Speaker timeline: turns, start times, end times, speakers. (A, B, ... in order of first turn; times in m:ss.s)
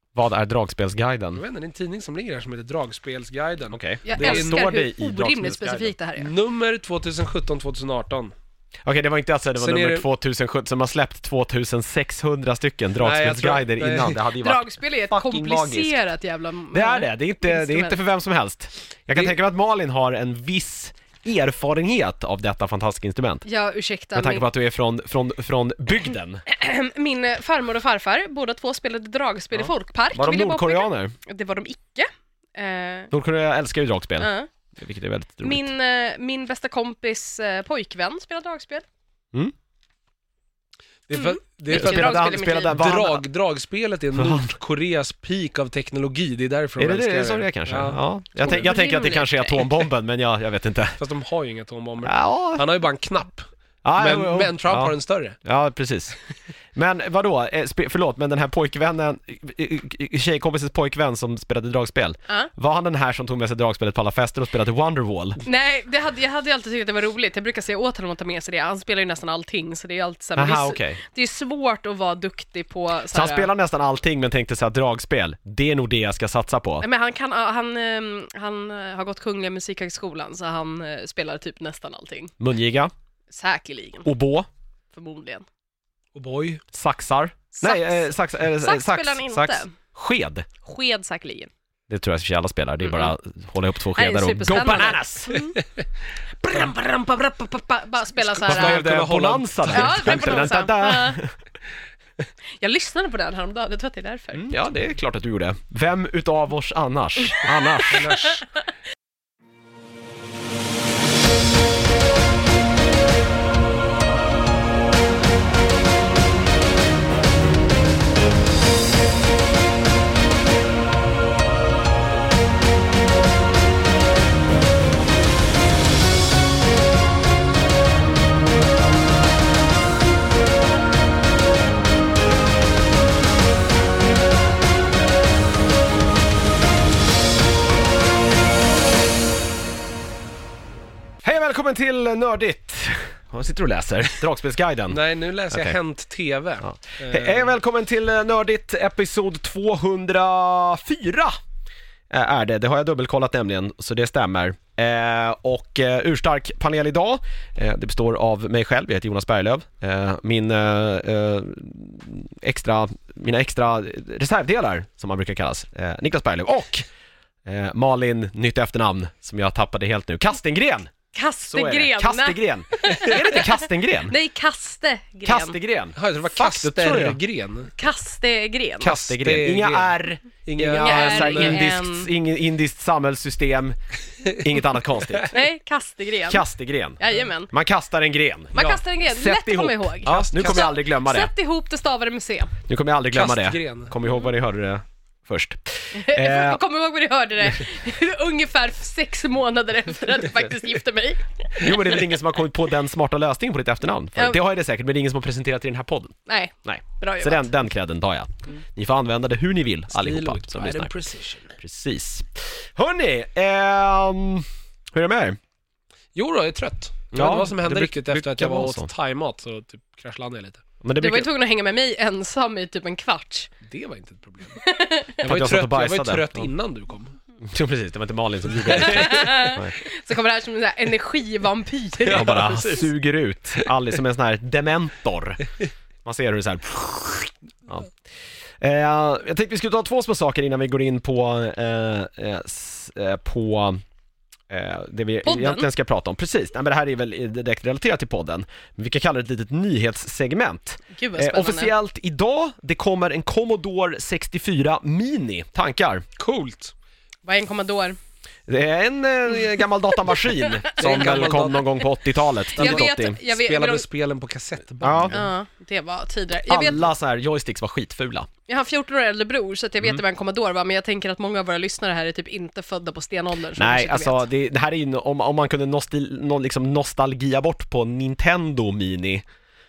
0:00.2-0:01.4 A
0:01.4-0:04.7 B
0:03.7-0:05.9 A
0:04.1-0:06.3 C
0:06.2-0:08.3 B
0:08.8-0:15.9 A
0:09.6-0:10.1 B
0:13.0-0:14.2 B
0:14.4-0:18.0 C
0:16.7-0:23.4 A
0:23.5-0:24.4 C
0:24.2-0:26.4 A
0:26.5-0:33.1 C
0:29.5-0:31.1 A
0:33.1-0:35.7 A
0:34.2-0:34.5 C
0:35.4-0:38.8 C
0:41.1-0:48.7 B
0:41.1-0:42.9 C
0:41.7-0:43.2 A
0:44.2-0:44.4 A
0:46.8-0:51.0 A
0:48.4-0:49.9 C
0:51.0-0:55.4 B
0:52.0-0:52.6 A
0:53.8-0:56.2 A
0:56.8-1:05.4 A
1:05.4-1:13.5 C
1:10.4-1:11.0 A
1:13.1-1:16.9 A
1:16.8-1:22.3 C
1:22.4-1:22.9 A
1:23.3-1:24.1 C
1:24.0-1:24.5 A
1:24.9-1:25.4 C
1:26.2-1:26.6 B
1:26.7-1:30.5 A
1:27.6-1:29.7 C
1:30.6-1:31.5 C
1:31.9-1:35.5 A
1:32.8-1:33.2 C
1:34.0-1:35.6 C
1:36.4-1:38.8 C
1:38.2-1:40.5 B
1:38.5-1:41.4 A
1:39.7-1:41.2 C
1:42.6-1:44.5 C
1:44.3-1:48.1 A
1:47.9-1:48.4 B
2:21.2-2:25.8 A
2:24.9-2:27.6 B
2:26.6-2:31.4 A
2:32.1-2:46.9 A
2:47.4-2:50.9 A
2:51.1-2:55.6 C
2:51.5-2:54.2 A
2:55.2-2:57.2 A
2:56.0-2:57.7 B
2:57.8-2:59.0 C
2:58.8-3:03.8 A
2:59.1-2:59.9 B
3:00.4-3:01.6 B
3:00.8-3:02.1 C
3:04.3-3:05.4 A
3:05.3-3:06.4 C
3:06.3-3:11.3 A
3:07.0-3:07.5 C
3:08.5-3:12.5 C
3:10.1-3:10.7 B
3:12.7-3:16.6 A
3:13.1-3:13.9 B
3:15.9-3:21.8 C
3:21.6-3:31.0 A
3:26.3-3:27.5 C
3:29.9-3:31.6 B
3:31.6-3:35.4 A
3:36.2-3:40.6 B
3:37.1-3:38.9 A
3:40.8-3:41.3 A
3:41.0-3:43.5 C
3:43.6-3:44.6 B
3:44.6-3:45.2 C
3:45.2-3:47.2 B
3:45.2-3:46.5 A
3:47.4-3:49.8 A
3:48.6-3:49.2 B
3:48.7-3:52.9 C
3:52.1-3:55.4 A
3:52.1-3:52.8 B
3:56.0-3:57.9 A
3:58.6-4:03.8 A
4:04.5-4:16.1 A
4:05.2-4:05.7 C
4:10.9-4:11.7 C
4:16.2-4:16.7 B
4:17.2-4:18.0 C
4:18.5-4:23.2 A
4:20.1-4:21.0 C
4:20.8-4:21.8 B
4:22.5-4:23.8 C
4:22.6-4:25.3 B
4:24.8-4:25.2 A
4:25.1-4:26.9 C
4:26.5-4:28.3 A
4:28.5-4:34.2 C
4:33.6-4:39.2 A